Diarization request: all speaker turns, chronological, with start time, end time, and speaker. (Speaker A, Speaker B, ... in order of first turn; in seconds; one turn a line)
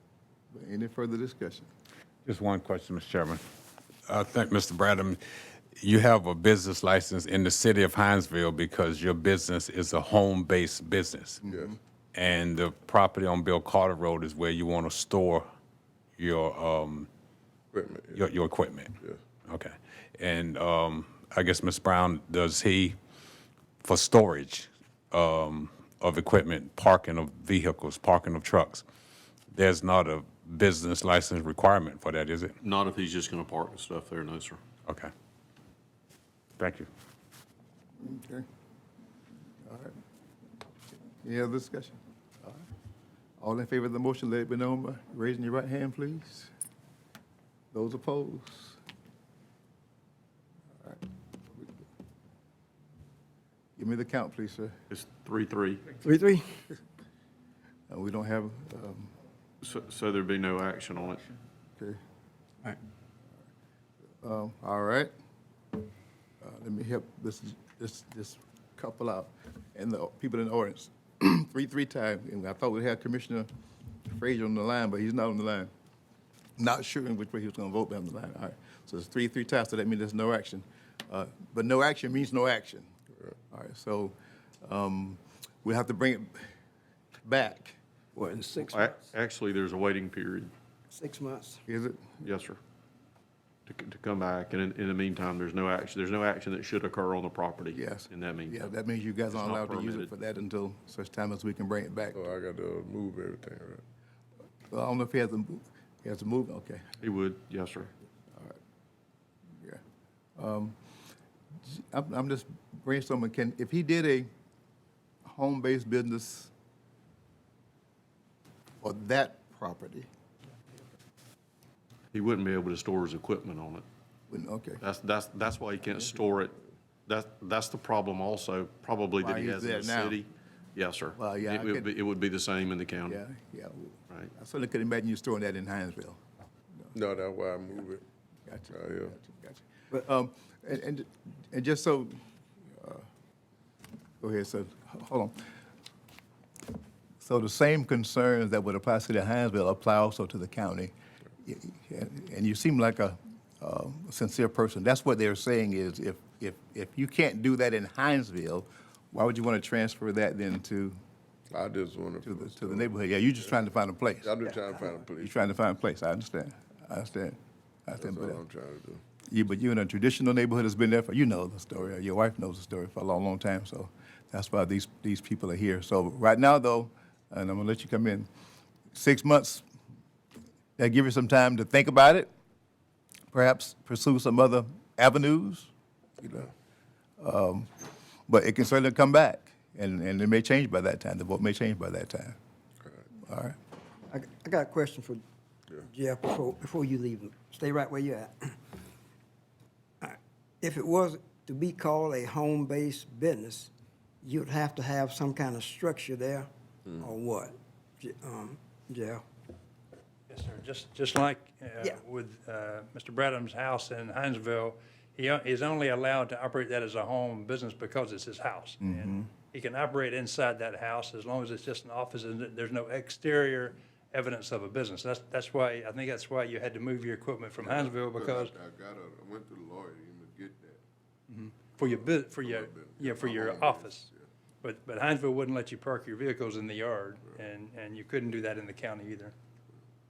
Speaker A: 0.5-1.7
Speaker B: 2.2-3.4
Speaker B: 4.1-5.2
Speaker B: 5.8-11.4
Speaker A: 11.5-11.8
Speaker C: 11.5-11.8
Speaker B: 12.1-15.5
Speaker B: 16.2-17.1
Speaker C: 17.7-18.3
Speaker B: 18.1-23.0
Speaker B: 23.8-28.8
Speaker B: 29.5-32.5
Speaker D: 32.6-34.6
Speaker B: 34.9-35.1
Speaker B: 36.6-36.9
Speaker A: 38.0-38.4
Speaker A: 39.6-39.9
Speaker A: 41.2-42.6
Speaker A: 43.4-46.5
Speaker A: 47.7-48.8
Speaker A: 53.8-54.8
Speaker D: 54.9-56.0
Speaker E: 56.0-56.6
Speaker A: 57.9-59.1
Speaker D: 59.6-61.2
Speaker A: 64.2-65.1
Speaker A: 66.4-73.5
Speaker A: 74.0-75.7
Speaker A: 76.6-82.9
Speaker A: 83.5-86.5
Speaker A: 87.2-87.8
Speaker E: 88.1-88.8
Speaker D: 88.6-90.5
Speaker E: 90.9-91.6
Speaker A: 91.7-92.0
Speaker D: 92.2-92.6
Speaker D: 93.7-98.7
Speaker A: 97.7-102.3
Speaker D: 99.3-100.1
Speaker C: 102.1-103.8
Speaker A: 104.7-106.8
Speaker D: 107.0-107.9
Speaker A: 110.4-110.8
Speaker A: 111.7-114.3
Speaker A: 115.2-116.5
Speaker A: 118.8-120.1
Speaker D: 122.1-123.8
Speaker A: 124.3-124.8
Speaker D: 124.8-126.5
Speaker D: 127.1-133.2
Speaker A: 129.2-130.2
Speaker A: 131.2-131.9
Speaker A: 133.1-136.2
Speaker C: 136.9-138.0
Speaker A: 138.5-142.1
Speaker C: 138.7-139.1
Speaker A: 142.8-143.1
Speaker A: 144.2-145.3
Speaker A: 147.2-161.0
Speaker C: 161.5-162.9
Speaker A: 162.2-164.4
Speaker C: 164.2-165.4
Speaker A: 165.2-168.4
Speaker C: 168.0-169.0
Speaker A: 169.3-178.3
Speaker A: 178.9-179.6
Speaker A: 180.8-182.3
Speaker A: 183.3-185.7
Speaker A: 187.2-187.7
Speaker A: 188.3-192.4
Speaker A: 193.2-193.6
Speaker E: 194.1-195.2
Speaker E: 195.9-198.6
Speaker E: 200.0-203.7
Speaker E: 204.2-209.2
Speaker F: 210.3-228.5
Speaker A: 218.8-219.3
Speaker C: 227.6-230.8
Speaker F: 231.3-234.1
Speaker C: 231.8-234.1
Speaker F: 234.6-239.3